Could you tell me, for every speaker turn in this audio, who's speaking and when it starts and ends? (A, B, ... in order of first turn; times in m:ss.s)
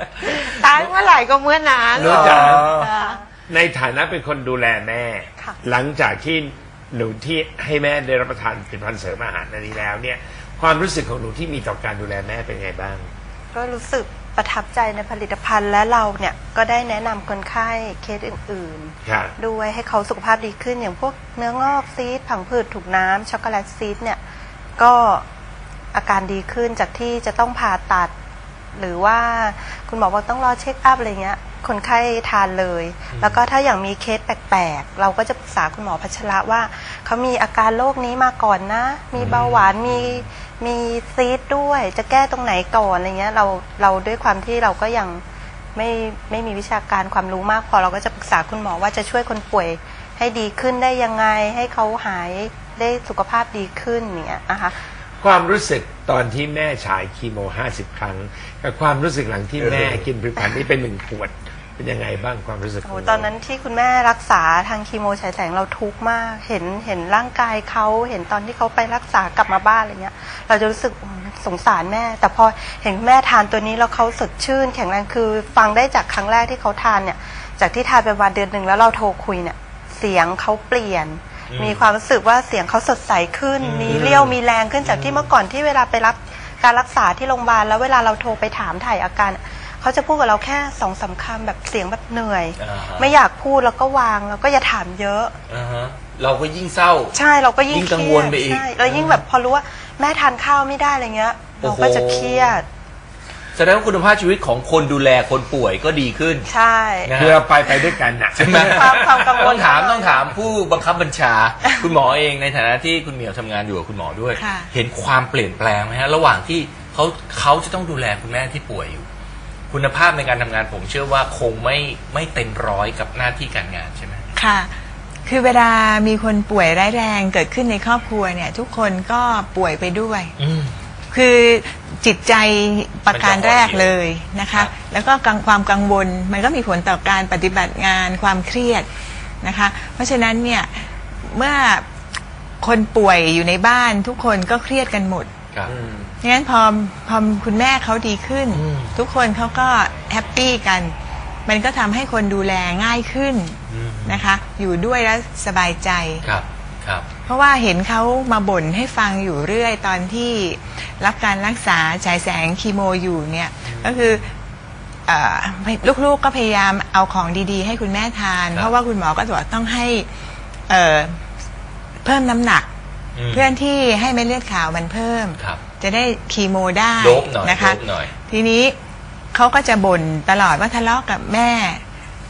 0:00.2-0:03.2 A
0:02.0-0:02.7 B
0:02.0-0:02.9 C
0:02.8-0:03.2 D
0:03.5-0:13.1 B
0:13.5-0:24.2 D
0:19.0-0:19.3 B
0:24.8-0:25.2 D
0:25.9-0:28.1 D
0:28.7-0:45.2 D
0:33.1-0:33.4 C
0:39.2-0:40.3 C
0:45.8-0:54.8 D
0:55.2-1:03.3 B
0:59.6-1:00.0 C
1:02.9-1:35.4 D
1:21.5-1:21.9 C
1:23.6-1:25.3 C
1:32.6-1:33.1 C
1:35.5-1:37.2 C
1:37.2-1:42.7 D
1:37.7-1:39.2 C
1:41.6-1:42.6 C
1:43.6-1:46.5 C
1:46.5-1:47.1 D
1:47.0-1:47.8 C
1:47.2-1:49.3 B
1:48.4-1:59.1 C
1:48.5-1:50.3 D
1:54.4-1:54.7 E
1:59.7-2:04.3 C
2:04.4-2:04.7 E
2:05.3-2:10.4 E
2:10.4-2:10.8 C
2:11.1-2:18.9 E
2:13.1-2:13.9 C
2:19.4-2:21.9 E
2:22.6-2:25.3 E
2:25.7-2:26.1 B
2:26.2-2:31.0 E
2:28.5-2:29.0 C
2:31.5-2:36.2 E
2:33.7-2:34.3 C
2:36.2-2:37.1 C
2:37.3-2:44.3 E
2:43.6-2:44.2 C
2:45.1-2:50.1 E
2:50.7-2:51.2 E
2:52.0-2:52.7 E
2:53.2-2:53.6 C
2:53.3-2:58.8 E
2:57.0-2:58.1 C
2:59.3-3:01.8 E